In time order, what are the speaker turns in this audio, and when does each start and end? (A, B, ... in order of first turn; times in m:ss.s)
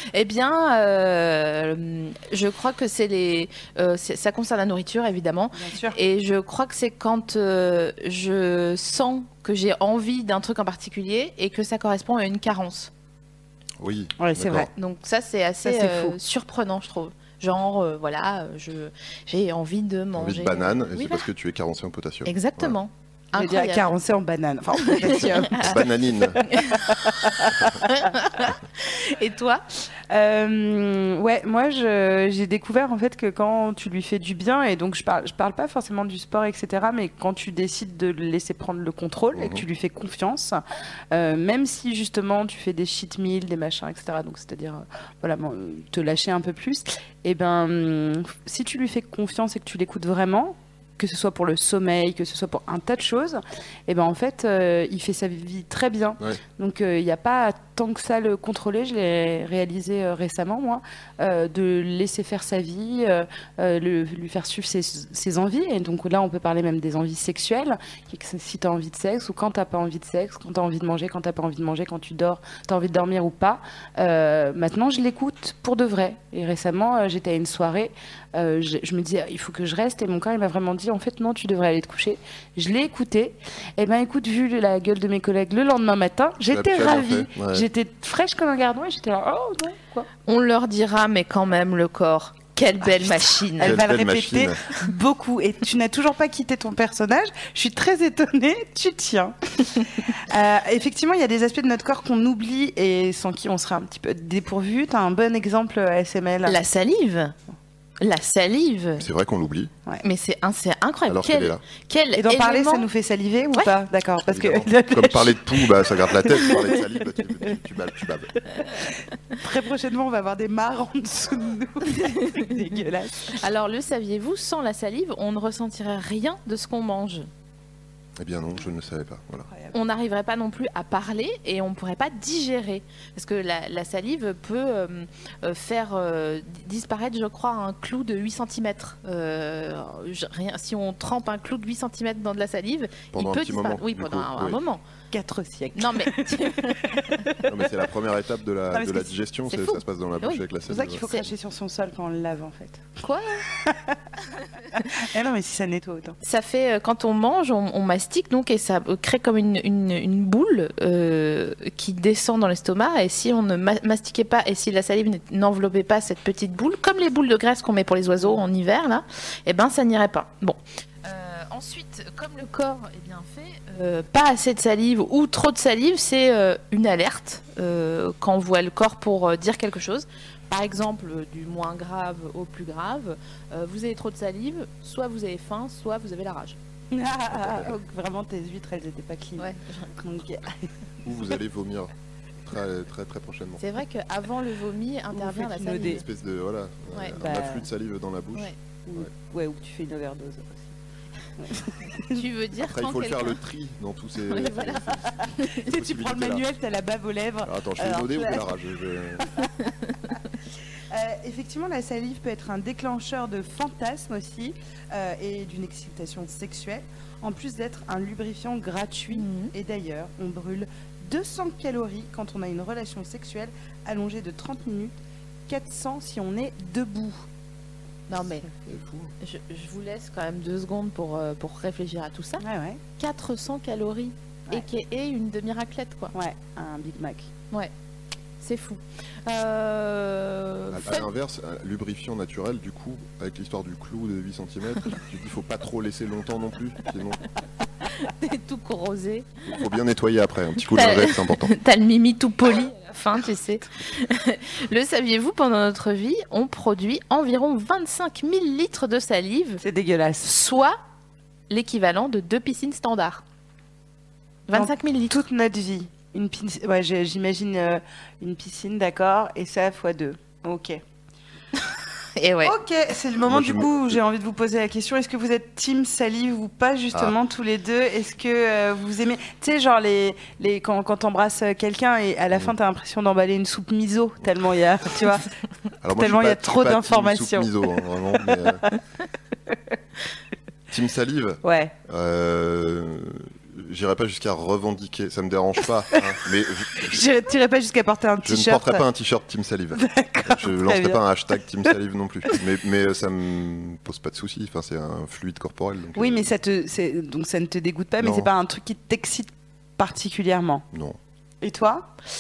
0:00.1-0:12.9 A
0:05.6-0:06.0 B
0:13.8-0:14.7 C
0:14.2-0:14.7 B
0:14.8-0:21.2 A
0:15.6-0:16.2 B
0:20.2-0:22.8 C
0:22.3-0:23.9 A
0:23.3-0:27.8 B
0:25.6-0:26.4 C
0:27.8-0:29.6 A
0:30.1-0:40.6 B
0:39.4-0:39.6 C
0:41.1-1:30.1 B
1:26.5-1:27.7 C
1:30.3-1:33.8 A
1:33.6-1:34.6 C
1:33.6-1:46.6 B
1:46.5-1:47.3 A
1:48.0-1:49.0 A
1:49.0-1:49.7 C
1:50.0-1:52.9 A
1:51.1-1:51.6 C
1:52.2-1:56.6 B
1:54.3-1:58.4 C
1:59.4-2:03.3 B
2:03.4-2:07.3 A
2:08.2-2:09.5 C
2:09.7-2:24.8 A
2:23.1-2:24.6 C
2:25.1-2:27.5 B
2:25.8-2:27.1 A
2:27.5-2:31.3 C
2:28.7-2:29.8 B
2:30.7-2:32.9 B
2:33.0-2:33.4 A
2:33.5-2:34.0 B
2:34.8-2:36.2 B
2:36.2-3:06.6 A
3:06.9-3:10.7 B
3:07.3-3:07.8 C
3:09.4-3:09.9 A
3:11.0-3:11.9 C
3:12.4-3:13.6 C
3:13.6-3:16.0 A
3:15.1-3:16.0 B
3:15.6-3:19.1 C
3:16.9-3:17.2 A
3:17.2-3:17.7 B
3:18.9-3:20.7 B
3:21.4-3:22.2 B
3:22.1-3:23.4 A
3:22.7-3:26.4 C
3:24.3-3:24.9 A
3:25.7-3:28.4 B
3:27.4-3:29.3 C
3:30.9-3:45.0 B
3:39.1-3:39.5 A
3:45.5-3:47.2 B
3:48.1-3:48.5 A
3:48.6-3:49.1 C
3:49.2-3:52.4 A
3:52.4-3:52.8 B
3:53.0-3:56.1 A
3:56.1-3:57.3 B
3:58.4-4:01.1 A
4:00.7-4:07.2 C
4:08.0-4:09.3 A
4:09.5-4:11.5 C
4:10.7-4:19.6 A
4:19.6-4:20.3 B
4:20.2-4:20.8 A
4:21.5-4:23.2 A
4:24.5-4:25.2 A
4:24.5-4:30.8 B
4:32.2-4:32.5 A
4:32.4-4:45.3 B
4:33.3-4:34.0 C
4:45.8-4:48.6 C
4:46.0-4:47.5 B
4:48.3-4:48.5 B
4:50.7-4:57.0 C
4:51.4-4:51.7 B
4:56.8-4:58.8 B
4:58.2-5:06.3 C
4:59.7-5:01.0 B
5:06.0-5:10.6 B
5:08.0-5:08.3 C
5:10.7-5:11.0 C
5:11.4-5:11.9 B